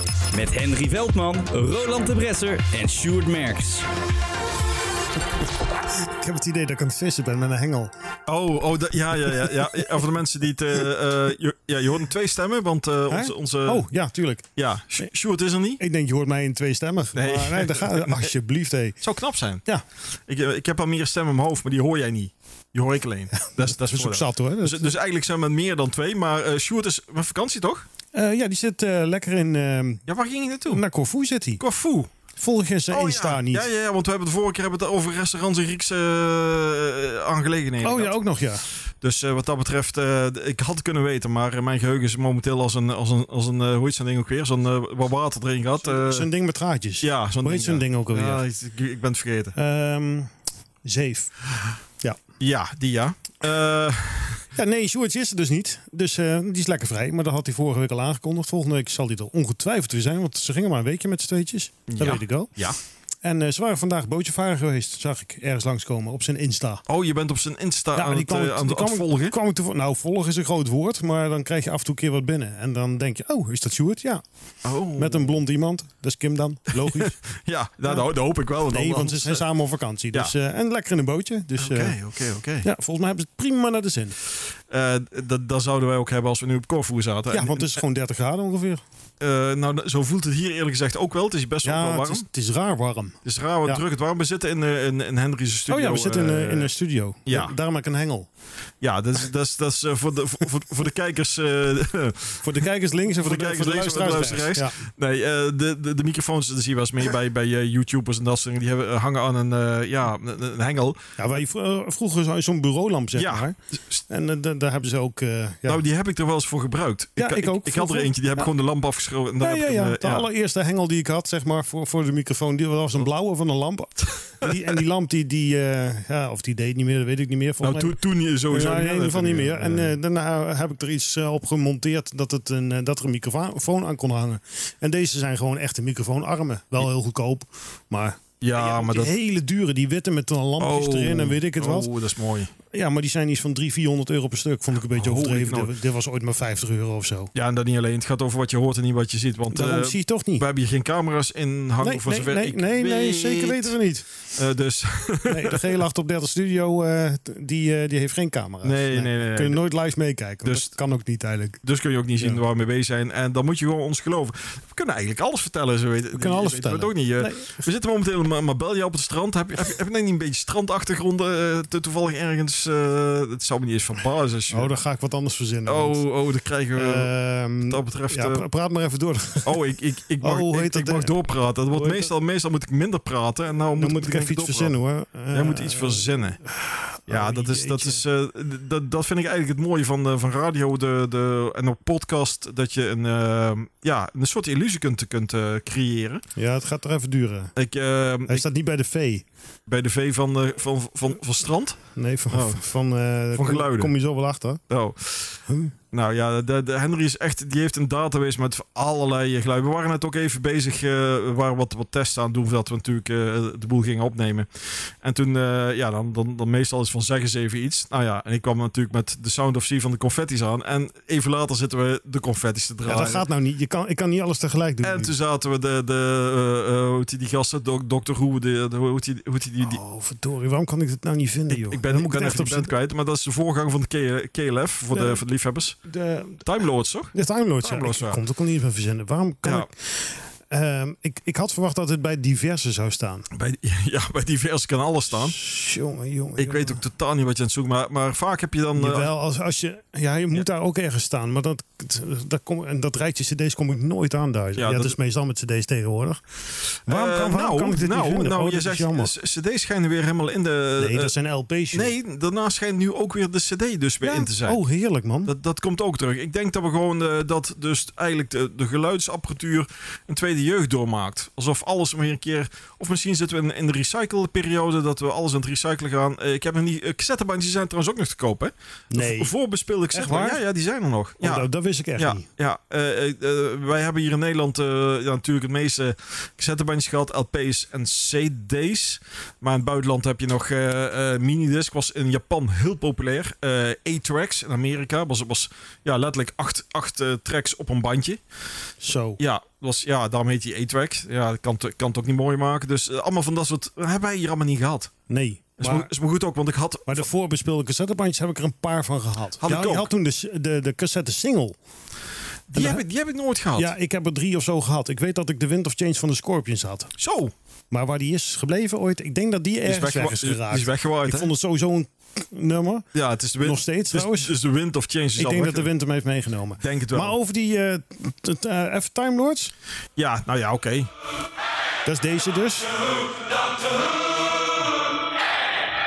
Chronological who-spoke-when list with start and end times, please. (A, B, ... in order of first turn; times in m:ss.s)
0:00.3-0:03.8 A
0:06.2-0:07.9 B
0:08.3-0:13.8 C
0:13.1-0:14.4 B
0:14.6-0:15.8 C
0:15.8-0:19.0 B
0:17.1-0:18.3 C
0:19.0-0:19.6 C
0:20.3-0:27.8 C
0:23.4-0:24.9 B
0:28.1-0:30.0 B
0:30.1-0:30.8 C
0:30.7-0:31.6 B
0:31.6-0:32.1 C
0:32.4-0:33.7 B
0:32.9-0:38.1 C
0:37.8-0:38.6 B
0:39.0-0:46.3 C
0:45.8-0:48.4 B
0:47.0-0:49.5 C
0:49.6-0:50.3 B
0:50.8-0:51.3 B
0:52.4-0:54.4 C
0:54.5-1:02.7 B
1:01.9-1:02.8 C
1:03.2-1:06.8 B
1:06.9-1:09.4 C
1:07.9-1:14.2 B
1:14.6-1:15.4 C
1:15.0-1:17.2 B
1:16.8-1:19.4 C
1:18.7-1:22.0 B
1:21.6-1:22.7 C
1:22.6-1:24.2 B
1:24.7-1:27.8 C
1:27.3-1:28.8 B
1:29.2-1:32.2 C
1:31.6-1:33.8 B
1:33.2-1:36.7 C
1:35.7-1:38.3 B
1:37.2-1:37.5 C
1:38.8-1:42.4 C
1:42.4-1:44.8 B
1:43.1-1:51.0 C
1:51.2-1:53.6 B
1:53.1-1:54.0 C
1:54.1-1:55.8 B
1:55.6-2:00.3 C
1:57.2-1:58.5 B
1:59.4-2:08.0 B
2:04.4-2:04.7 C
2:07.6-2:09.9 C
2:08.5-2:21.9 B
2:18.4-2:19.1 C
2:20.6-2:22.5 C
2:22.7-2:27.3 B
2:24.9-2:25.7 C
2:27.3-2:33.8 C
2:29.5-2:30.4 B
2:31.8-2:34.1 B
2:34.3-2:35.8 C
2:35.2-2:41.6 B
2:38.6-2:39.6 C
2:40.4-2:40.8 C
2:41.6-2:54.7 C
2:46.1-2:47.6 B
2:54.5-2:56.0 B
2:55.6-2:57.1 C
2:56.7-2:59.6 B
2:57.7-2:58.4 C
2:59.4-3:04.7 C
3:00.2-3:01.1 B
3:01.7-3:02.1 B
3:03.8-3:08.0 B
3:05.3-3:06.4 C
3:07.1-3:16.2 C
3:16.3-3:17.5 B
3:17.6-3:18.4 C
3:18.3-3:19.2 B
3:19.6-3:22.6 C
3:22.0-3:24.6 B
3:23.3-3:23.9 C
3:24.7-3:25.4 C
3:25.5-3:25.7 B
3:25.9-3:43.2 C
3:42.9-3:45.1 B
3:44.8-3:49.8 C
3:49.6-3:52.7 B
3:51.5-3:55.8 C
3:54.9-3:55.2 B
3:55.8-3:56.4 B
3:56.4-3:58.2 C
3:57.1-4:03.3 B
4:03.3-4:05.4 C
4:05.2-4:06.8 B
4:06.4-4:09.1 C
4:08.7-4:16.2 B
4:14.6-4:15.0 C
4:16.8-4:21.1 C
4:16.9-4:19.1 B
4:20.8-4:21.9 B
4:21.7-4:24.6 C
4:24.0-4:25.3 B
4:25.2-4:58.2 C
4:38.9-4:39.3 B
4:39.9-4:40.4 B
4:41.2-4:42.2 B
4:58.8-4:59.2 B
4:59.2-5:04.9 C
5:05.1-5:05.9 B
5:05.6-5:07.0 C
5:06.9-5:11.6 B
5:09.4-5:09.9 C
5:12.5-5:13.7 C
5:12.5-5:12.8 B
5:13.5-5:16.9 B
5:17.0-5:17.3 C
5:17.7-5:22.9 B
5:19.6-5:21.3 C
5:22.9-5:25.7 C
5:23.4-5:24.3 B
5:25.2-5:29.5 B
5:26.6-5:27.2 C
5:30.0-5:30.9 C
5:31.8-5:32.7 B